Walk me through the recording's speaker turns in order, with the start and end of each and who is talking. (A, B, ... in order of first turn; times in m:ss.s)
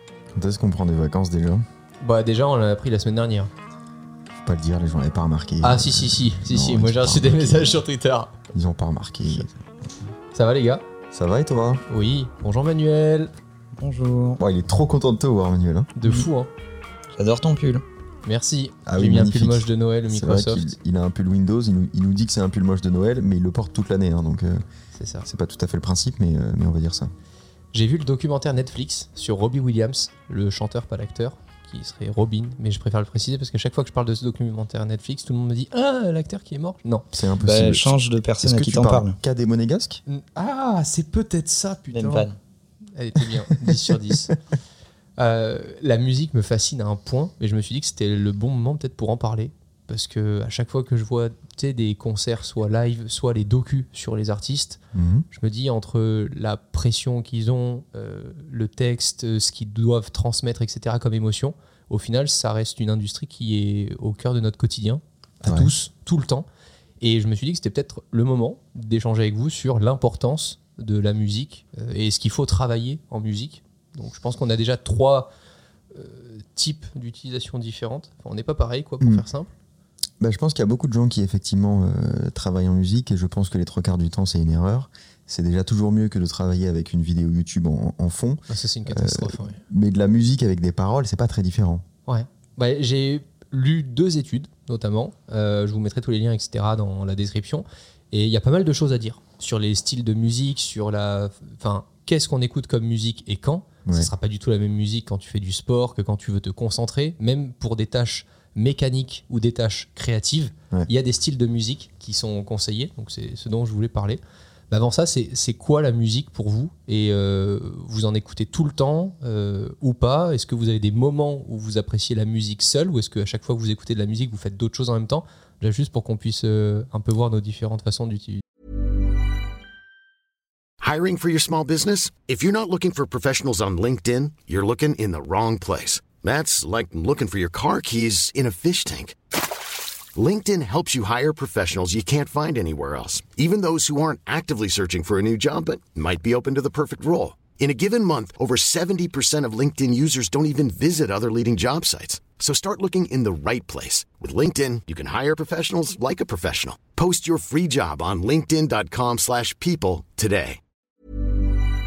0:00.3-0:01.6 A
0:02.0-0:03.5 B
0:04.4-0:07.8 A
0:05.6-0:08.4 B
0:08.5-0:09.9 A
0:10.3-0:10.8 B
0:11.1-0:11.8 A
0:11.9-0:13.3 B
0:13.8-0:14.4 C
0:14.4-0:15.9 A
0:16.0-0:16.5 B
0:17.2-0:17.8 C
0:18.2-0:20.7 B
0:18.9-0:24.6 A
0:24.9-0:25.3 B
0:25.2-0:27.1 A
0:27.7-0:37.1 B
0:37.1-0:40.0 A
0:37.4-0:39.2 C
0:40.1-0:42.3 B
0:41.9-0:42.4 C
0:43.0-0:44.3 B
0:43.6-0:44.2 A
0:45.2-0:54.8 B
0:54.9-0:55.3 A
0:55.3-1:06.5 B
1:05.4-1:05.7 A
1:07.0-1:15.3 B
1:15.9-1:19.5 B
1:20.2-1:31.8 A
1:28.5-1:29.6 B
1:32.1-2:08.4 B
2:10.8-2:19.2 D
2:20.2-2:40.6 D